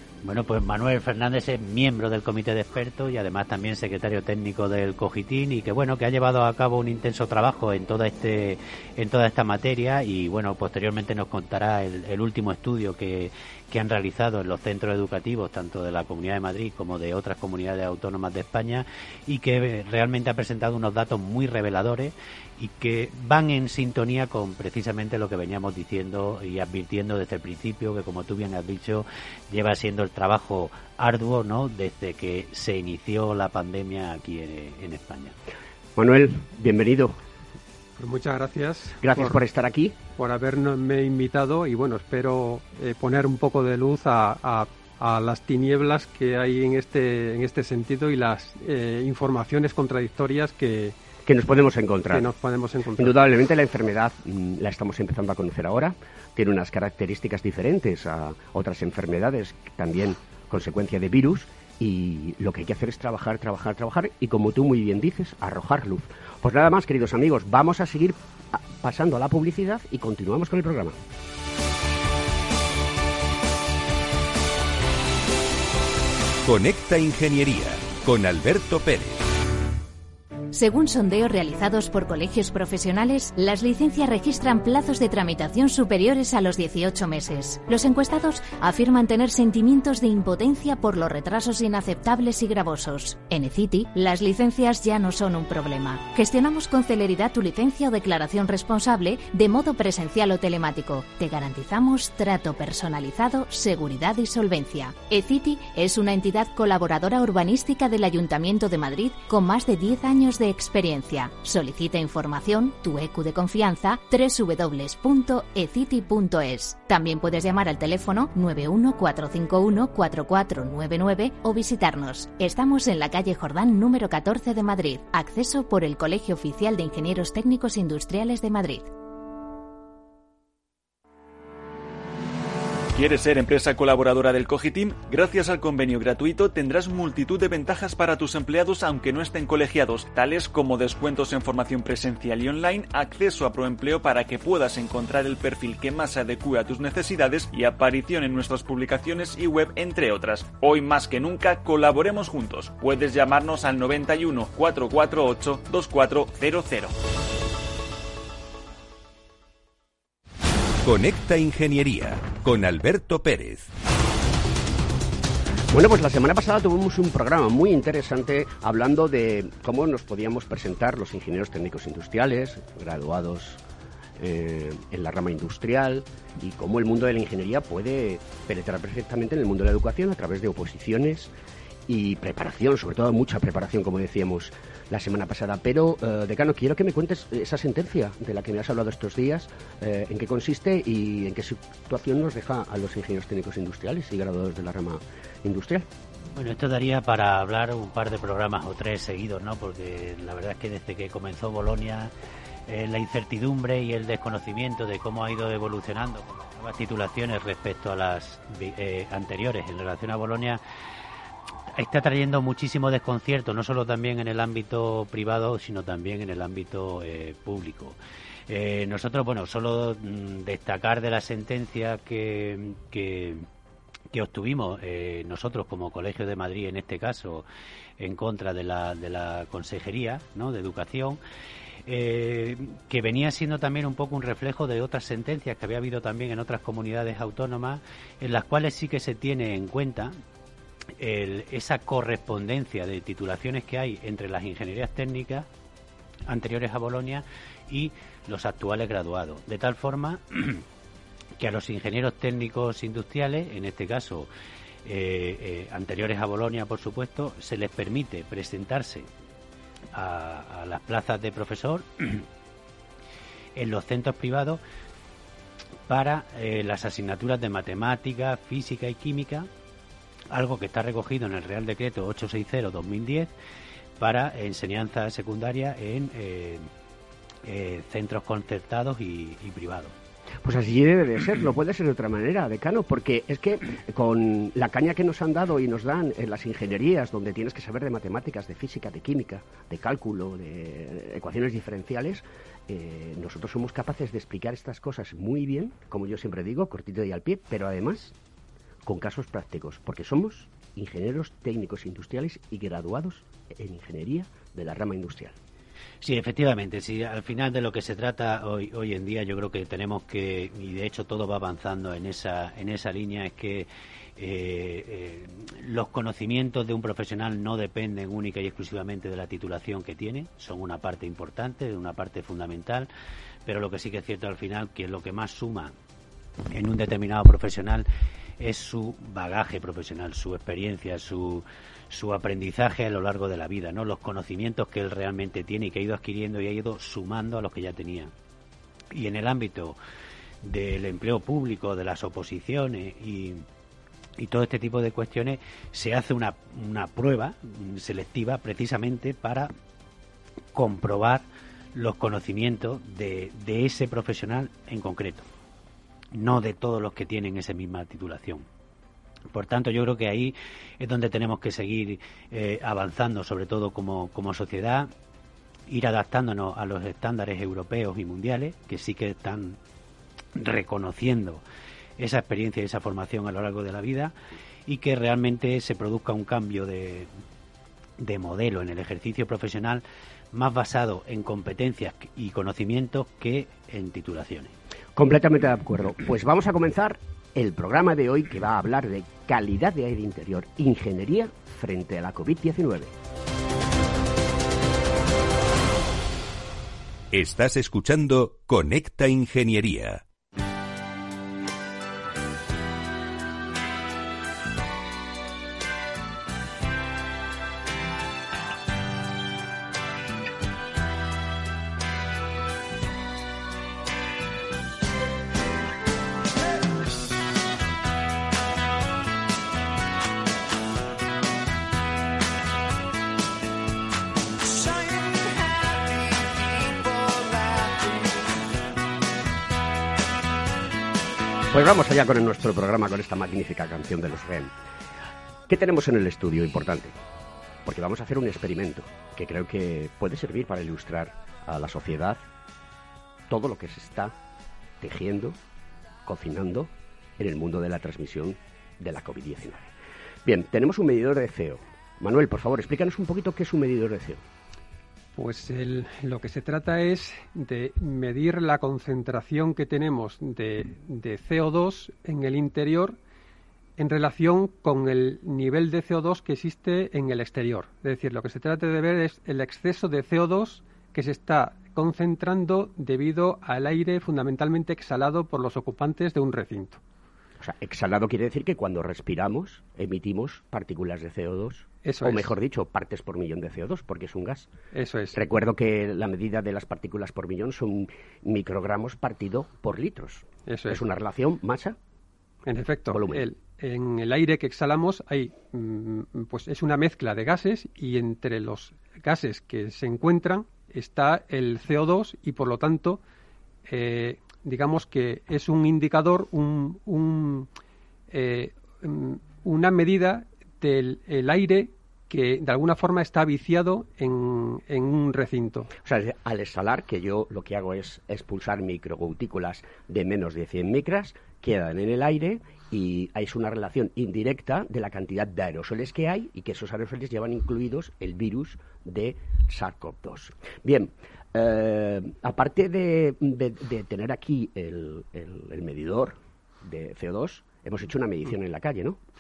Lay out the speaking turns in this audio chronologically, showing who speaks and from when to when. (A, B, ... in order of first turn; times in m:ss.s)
0:00.2-0:35.3 A
0:36.0-0:37.1 B
0:38.0-0:39.4 C
0:39.0-0:39.9 B
0:40.2-0:51.0 C
0:51.2-0:52.3 B
0:52.1-0:53.2 C
0:53.0-1:11.0 B
1:16.4-1:19.2 D
1:20.5-2:08.9 E
2:12.9-2:37.0 F
2:40.8-2:43.7 D
2:45.7-2:53.6 B
2:54.2-3:01.3 B
3:01.9-3:15.9 B
3:16.3-3:22.1 A
3:22.7-3:30.6 A
3:31.8-3:38.0 A
3:38.5-3:43.4 A
3:44.1-3:47.4 A
3:48.0-3:51.2 A
3:51.9-4:00.1 A
4:01.0-4:05.5 A
4:06.3-4:10.6 A
4:11.4-4:14.3 A
4:14.8-4:19.1 A
4:19.9-4:22.2 A
4:23.6-4:24.6 A
4:25.9-4:29.5 A
4:30.3-4:33.3 A
4:34.0-4:36.7 A
4:37.4-4:39.9 A
4:40.4-4:58.1 B
4:58.9-5:05.3 B
5:06.0-5:22.9 A
5:23.4-5:25.7 A
5:26.5-5:27.9 A
5:28.4-5:38.1 A
5:38.9-5:39.8 A
5:40.4-5:43.4 A
5:44.2-5:49.5 A
5:50.5-5:55.2 A
5:56.1-5:58.4 A
5:59.3-6:04.9 A
6:05.7-6:09.6 A
6:10.4-6:11.4 A
6:12.0-6:14.1 A
6:14.7-6:17.1 A
6:18.0-6:24.5 A
6:25.0-6:32.9 B
6:37.1-6:40.0 D
7:11.5-7:14.5 B
7:15.5-7:16.9 B
7:17.6-7:22.2 B
7:23.3-7:24.1 B
7:24.8-7:25.4 B
7:26.1-7:29.7 B
7:30.2-7:34.2 B
7:35.2-7:43.0 C
7:43.8-7:56.8 C
7:57.4-8:04.5 B
8:01.8-8:02.3 C
8:04.7-8:05.2 C
8:05.2-8:11.8 B
8:10.5-8:10.8 C
8:12.4-8:23.0 C
8:12.9-8:13.2 B
8:23.7-8:27.5 C
8:28.1-8:35.7 C
8:35.8-8:59.0 B